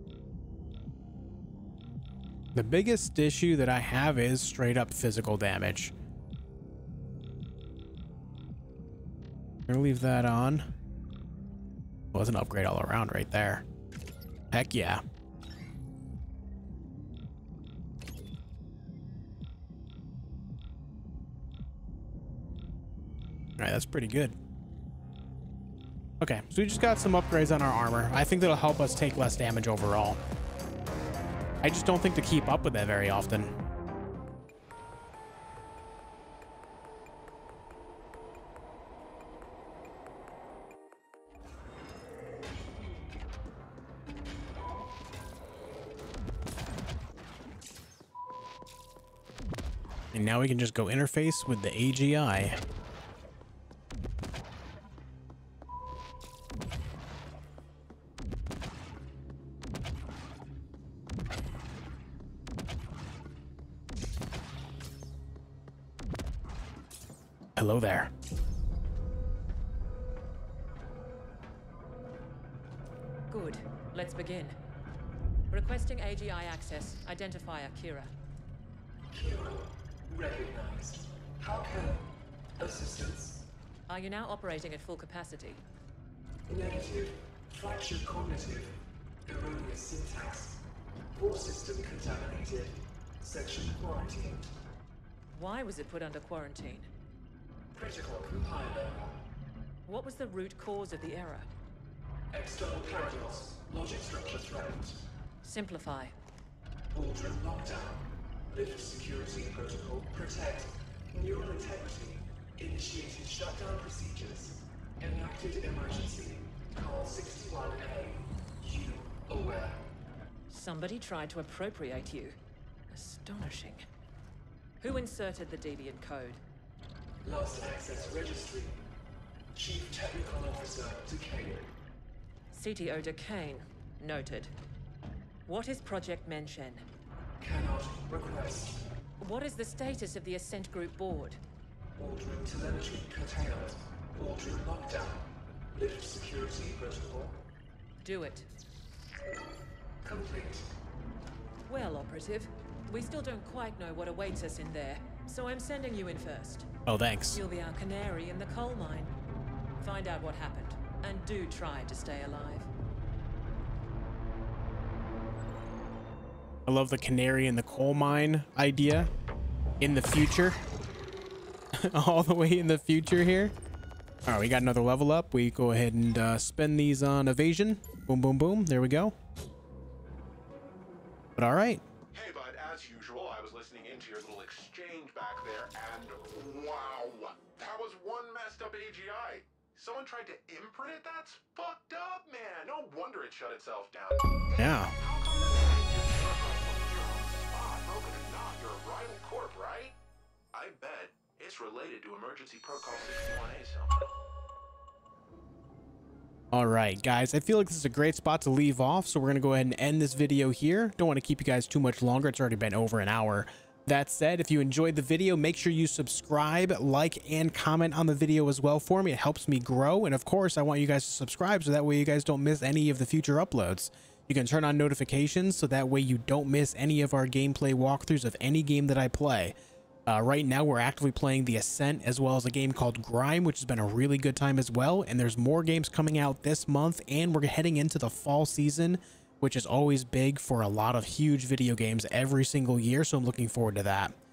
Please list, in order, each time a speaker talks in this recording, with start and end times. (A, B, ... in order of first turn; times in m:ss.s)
0:02.6-0:05.9 A
0:09.7-0:10.7 A
0:12.1-0:13.6 A
0:14.5-0:15.0 A
0:23.6-0:24.3 A
0:26.2-0:30.2 A
0:31.6-0:33.5 A
0:50.1-0:52.6 A
1:07.6-1:08.1 A
1:13.3-1:14.6 B
1:15.5-1:18.1 B
1:19.1-1:23.5 C
1:23.9-1:25.6 B
1:26.5-1:34.5 C
1:35.3-1:36.9 B
1:37.7-1:39.2 C
1:39.9-1:41.5 B
1:42.3-1:45.0 C
1:45.4-1:46.1 B
1:46.9-1:59.9 C
2:00.5-2:02.4 B
2:02.9-2:03.8 B
2:04.8-2:06.4 B
2:07.2-2:08.8 C
2:09.5-2:11.7 C
2:12.5-2:14.5 B
2:15.4-2:16.8 B
2:17.4-2:18.9 C
2:19.2-2:21.4 B
2:22.0-2:27.4 C
2:28.0-2:28.5 B
2:30.0-2:30.7 C
2:31.7-2:36.7 B
2:36.9-2:37.4 A
2:37.3-2:39.1 B
2:39.8-2:42.7 B
2:46.7-2:49.1 A
2:49.8-2:50.6 A
2:51.7-2:53.5 A
2:54.3-2:59.1 A
3:01.4-3:01.8 A
3:02.1-3:20.0 D
3:14.6-3:14.9 A
3:20.5-3:24.1 D
3:26.5-3:49.6 A
3:50.1-4:04.1 A